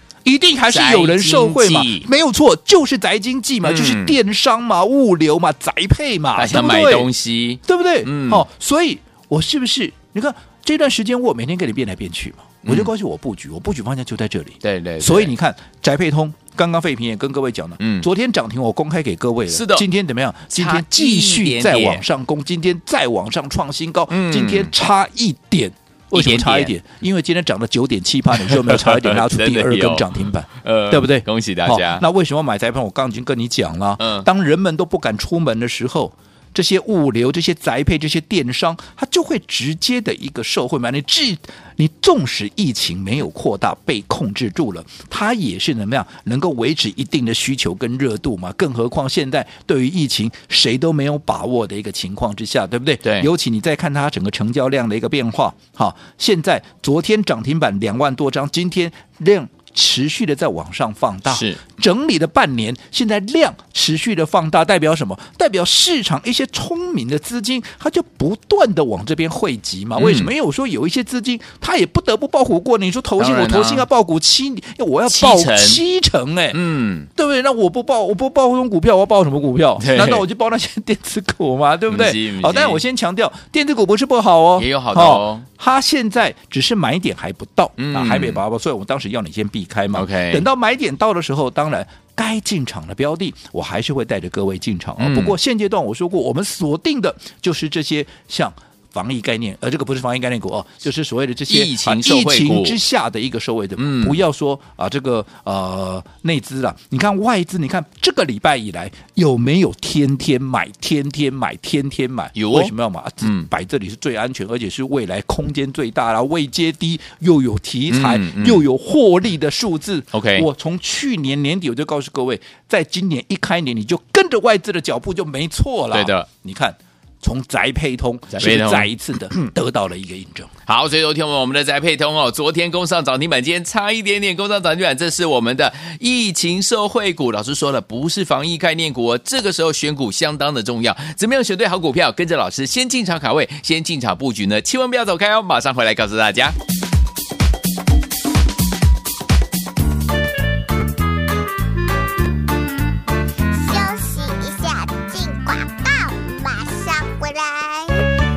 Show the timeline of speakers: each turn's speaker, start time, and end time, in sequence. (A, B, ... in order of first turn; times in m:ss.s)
0:00.2-0:07.1 A
0:00.7-0:02.1 B
0:03.6-0:04.2 B
0:06.4-0:08.4 B
0:07.6-1:16.6 A
0:12.6-0:12.9 B
0:14.6-0:15.3 B
0:17.8-0:18.1 B
0:19.5-0:19.9 B
0:20.5-0:22.0 B
0:24.1-0:24.7 B
0:26.1-0:26.7 B
0:28.4-0:32.0 B
0:34.0-0:34.3 B
1:01.3-1:01.6 B
1:10.0-1:10.3 B
1:13.2-1:13.9 B
1:15.1-1:15.8 B
1:16.5-1:17.1 B
1:17.2-2:10.5 A
1:19.8-1:20.2 B
1:21.9-1:22.8 B
1:24.6-1:25.5 B
1:27.8-1:28.4 B
1:29.9-1:30.5 B
1:35.0-1:35.4 B
1:41.5-1:42.8 B
1:43.8-1:44.2 B
1:52.4-1:53.5 B
1:57.9-1:58.6 B
2:00.1-2:00.5 B
2:05.9-2:06.3 B
2:08.3-2:08.9 B
2:10.7-2:26.6 B
2:33.5-2:38.0 C